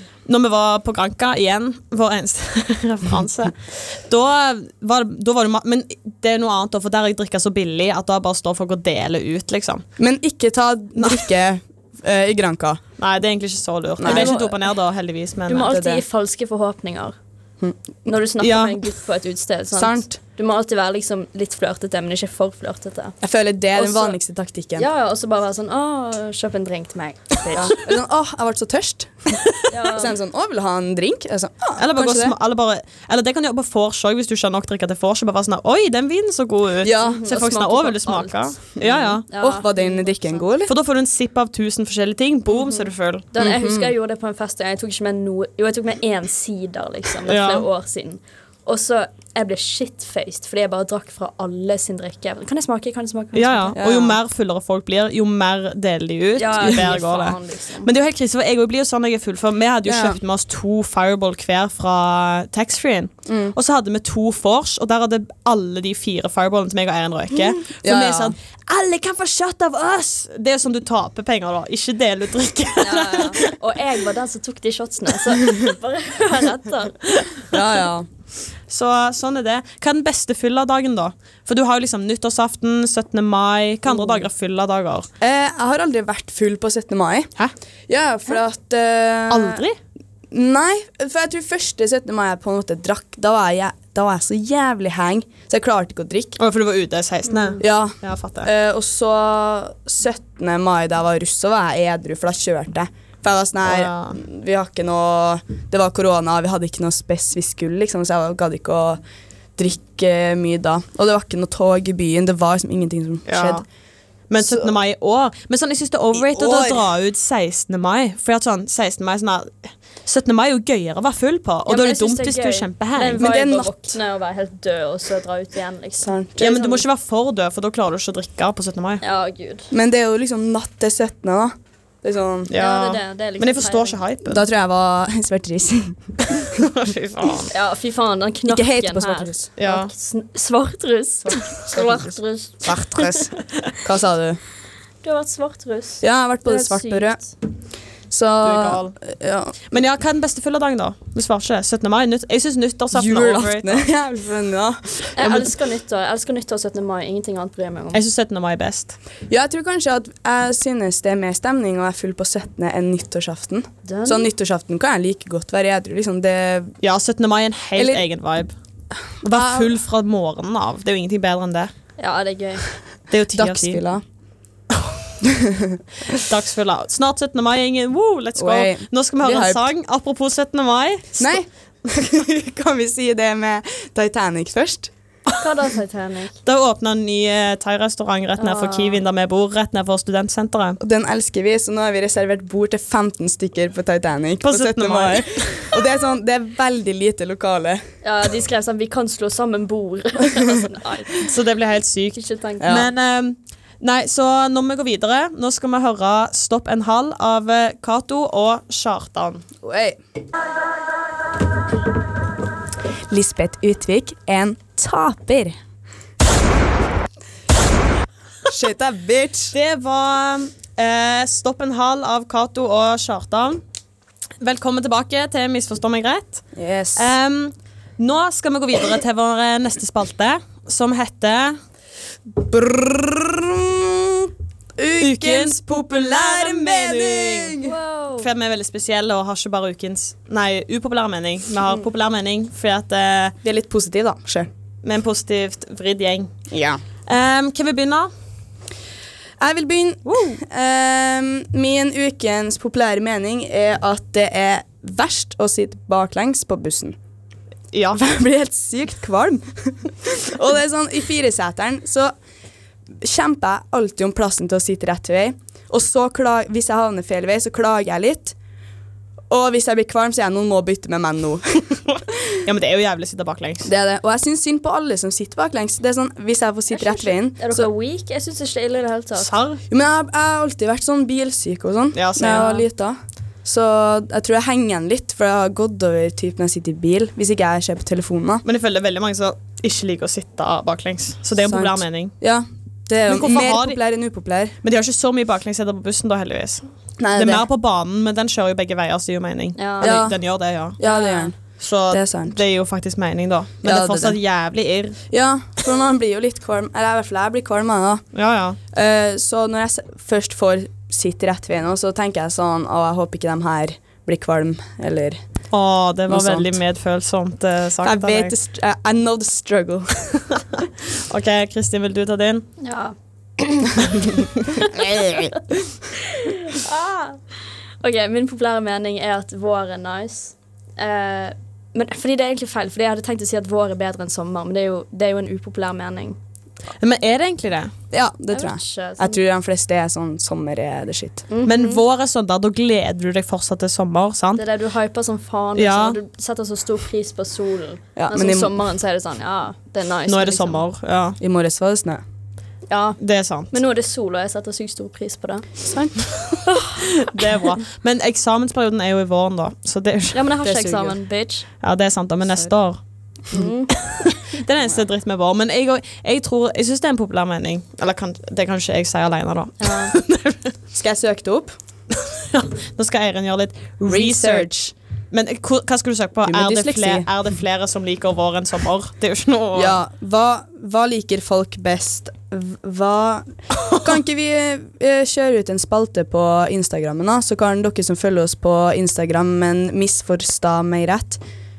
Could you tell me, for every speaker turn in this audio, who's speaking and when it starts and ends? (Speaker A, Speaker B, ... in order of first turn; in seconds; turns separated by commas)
Speaker A: 0.2-9.8, Speaker B: 10.0-12.8, Speaker A: 10.9-11.3, Speaker A: 13.0-15.7, Speaker B: 14.0-14.3, Speaker C: 14.0-14.6, Speaker C: 15.5-17.1, Speaker B: 15.6-16.0, Speaker C: 18.0-23.1, Speaker A: 18.4-18.8, Speaker B: 19.7-20.2, Speaker B: 23.2-24.9, Speaker C: 23.7-24.2, Speaker C: 24.8-27.9, Speaker B: 27.5-32.3, Speaker C: 29.7-30.1, Speaker A: 31.8-39.2, Speaker B: 36.8-37.2, Speaker C: 37.0-38.6, Speaker B: 38.8-40.7, Speaker C: 39.3-40.5, Speaker A: 40.7-43.2, Speaker C: 42.5-53.8, Speaker B: 43.4-43.9, Speaker A: 47.3-47.6, Speaker A: 53.3-73.5, Speaker B: 53.8-54.2, Speaker C: 56.4-57.9, Speaker B: 59.8-60.2, Speaker B: 63.3-63.5, Speaker B: 67.8-68.3, Speaker C: 72.8-77.5, Speaker B: 77.5-78.1, Speaker A: 78.7-85.1, Speaker B: 85.2-87.3, Speaker B: 87.9-89.6, Speaker A: 89.3-89.8, Speaker B: 90.3-96.4, Speaker A: 96.4-98.5, Speaker B: 97.6-109.0, Speaker A: 103.6-104.2, Speaker B: 109.6-113.6, Speaker A: 113.3-113.6, Speaker A: 114.3-123.3, Speaker B: 114.4-114.7, Speaker B: 116.1-116.9, Speaker C: 121.7-126.1, Speaker B: 123.2-124.0, Speaker B: 126.0-126.8, Speaker A: 126.4-129.0, Speaker C: 129.0-129.7, Speaker B: 129.7-132.5, Speaker A: 132.5-134.4, Speaker C: 132.5-134.0, Speaker B: 134.2-136.1, Speaker A: 136.3-137.5, Speaker C: 137.5-143.3, Speaker B: 138.5-139.5, Speaker A: 139.6-139.9, Speaker B: 141.5-143.3, Speaker B: 143.8-144.4, Speaker C: 145.0-147.3, Speaker B: 146.0-147.2, Speaker B: 148.1-149.5, Speaker A: 148.4-148.9, Speaker A: 149.7-153.9, Speaker B: 152.9-155.5, Speaker C: 155.2-158.0, Speaker A: 157.9-159.0, Speaker B: 159.3-166.7, Speaker C: 163.8-164.3, Speaker A: 166.8-168.5, Speaker B: 167.7-168.0, Speaker A: 169.2-171.7, Speaker B: 169.3-169.7, Speaker C: 172.0-172.6, Speaker A: 173.1-173.8, Speaker B: 173.3-174.0, Speaker B: 175.2-176.2, Speaker A: 176.2-181.3, Speaker B: 178.3-179.6, Speaker B: 181.2-184.9, Speaker C: 185.4-186.3, Speaker A: 186.4-190.8, Speaker C: 188.4-189.0, Speaker B: 190.8-197.8, Speaker A: 194.4-195.8, Speaker C: 198.0-201.2, Speaker A: 201.2-209.4, Speaker C: 202.1-202.8, Speaker B: 202.6-202.9, Speaker B: 209.6-210.0, Speaker B: 213.1-215.6, Speaker B: 218.5-219.5, Speaker A: 219.5-223.6, Speaker A: 224.4-231.6, Speaker B: 226.6-227.1, Speaker B: 232.3-237.7, Speaker A: 235.0-237.6, Speaker C: 237.6-238.3, Speaker A: 238.2-243.3, Speaker B: 243.4-244.5, Speaker A: 244.8-246.3, Speaker B: 246.5-246.8, Speaker A: 247.1-248.1, Speaker B: 249.4-257.0, Speaker A: 250.1-250.4, Speaker A: 257.7-258.0, Speaker B: 257.9-262.1, Speaker B: 263.0-268.4, Speaker B: 269.3-272.4, Speaker A: 272.4-273.7, Speaker B: 273.6-277.7, Speaker C: 276.7-279.3, Speaker A: 279.2-279.6, Speaker B: 279.7-288.4, Speaker A: 281.9-282.5, Speaker C: 282.3-282.6, Speaker A: 288.4-292.1, Speaker B: 291.4-294.6, Speaker A: 293.1-293.8, Speaker A: 294.6-300.8, Speaker B: 297.0-297.5, Speaker C: 299.6-300.0, Speaker B: 299.8-300.2, Speaker B: 300.8-301.3, Speaker C: 300.8-301.3, Speaker A: 301.6-305.0, Speaker B: 301.9-302.4, Speaker B: 303.6-304.2, Speaker B: 305.1-308.0, Speaker A: 308.1-308.6, Speaker B: 308.7-315.2, Speaker A: 315.5-318.3, Speaker B: 316.1-316.6, Speaker B: 317.8-320.2, Speaker A: 320.6-322.5, Speaker C: 322.6-323.8, Speaker C: 324.5-324.8, Speaker C: 326.0-327.2, Speaker C: 327.8-336.2, Speaker A: 336.8-337.7, Speaker B: 337.9-341.2, Speaker C: 338.3-339.2, Speaker C: 341.3-341.8, Speaker A: 341.4-344.4, Speaker C: 344.4-350.6, Speaker A: 345.6-346.0, Speaker B: 347.9-348.5, Speaker A: 350.1-351.2, Speaker B: 351.2-352.0, Speaker C: 352.7-353.0, Speaker A: 353.0-353.5, Speaker C: 353.5-355.5, Speaker B: 355.6-356.0, Speaker A: 356.7-360.3, Speaker C: 360.1-361.5, Speaker B: 360.4-360.9, Speaker A: 361.6-362.8, Speaker C: 363.3-363.7, Speaker A: 363.7-370.5, Speaker C: 369.6-369.9, Speaker B: 370.7-371.5, Speaker A: 371.9-374.5, Speaker B: 373.9-374.7, Speaker A: 375.1-379.8, Speaker B: 376.2-377.1, Speaker B: 379.5-391.2, Speaker A: 383.6-383.9